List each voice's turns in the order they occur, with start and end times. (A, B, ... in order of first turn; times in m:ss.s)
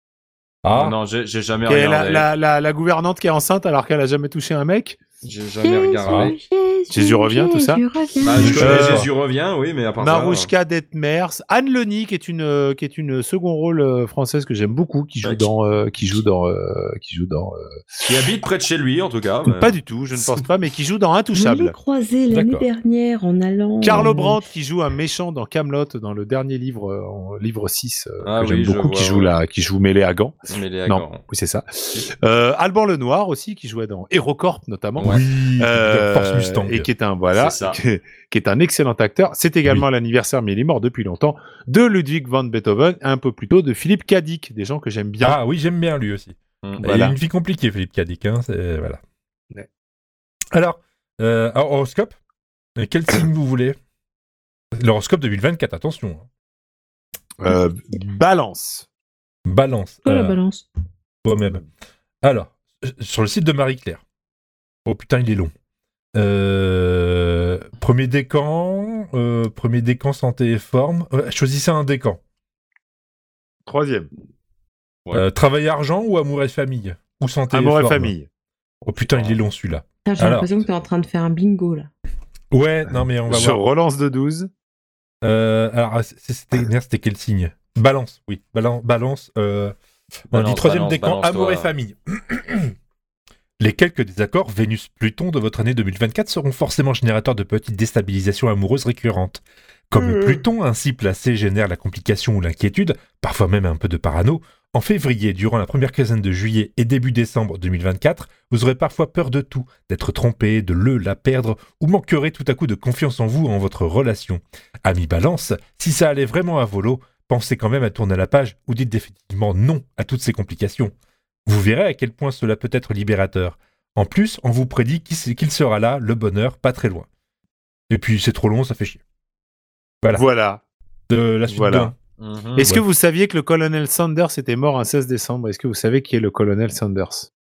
0:00.6-0:01.0 A
0:00.7-0:02.3 B
0:01.6-0:05.0 C
0:05.2-0:06.4 B
0:05.6-0:08.5 D
0:06.0-0:06.4 A
0:06.9-0:07.8 C
0:08.2-0:10.5 B
0:08.3-0:09.1 A
0:08.6-0:09.1 C
0:10.0-0:18.0 C
0:15.2-0:15.5 B
0:18.0-0:20.4 B
0:19.4-0:21.8 C
0:21.3-0:24.4 D
0:22.3-0:22.6 A
0:23.8-0:45.4 C
0:28.2-0:29.4 B
0:30.5-0:31.2 B
0:35.0-0:36.9 A
0:37.3-0:37.8 B
0:45.2-0:49.0 A
0:46.8-0:47.2 C
0:50.5-0:52.1 A
0:52.8-0:53.8 A
0:54.8-0:56.3 A
0:57.4-0:58.9 C
0:59.4-1:00.4 A
1:00.0-1:00.7 D
1:01.2-1:01.6 A
1:01.3-1:01.6 C
1:02.2-1:04.0 A
1:04.8-1:05.5 A
1:06.1-1:12.2 A
1:13.6-1:14.1 C
1:15.1-1:18.1 A
1:17.5-1:18.3 C
1:18.8-1:20.5 A
1:19.0-1:19.4 B
1:20.0-1:21.9 D
1:22.5-1:23.6 A
1:23.2-1:24.5 C
1:25.2-1:29.7 A
1:30.3-1:32.7 A
1:30.3-1:31.7 B
1:33.6-2:00.9 A
2:01.5-2:07.1 A
2:07.9-2:09.0 A
2:10.1-2:10.6 C
2:11.1-2:11.9 A
2:11.5-2:11.9 C
2:12.2-2:12.7 B
2:12.6-2:17.3 C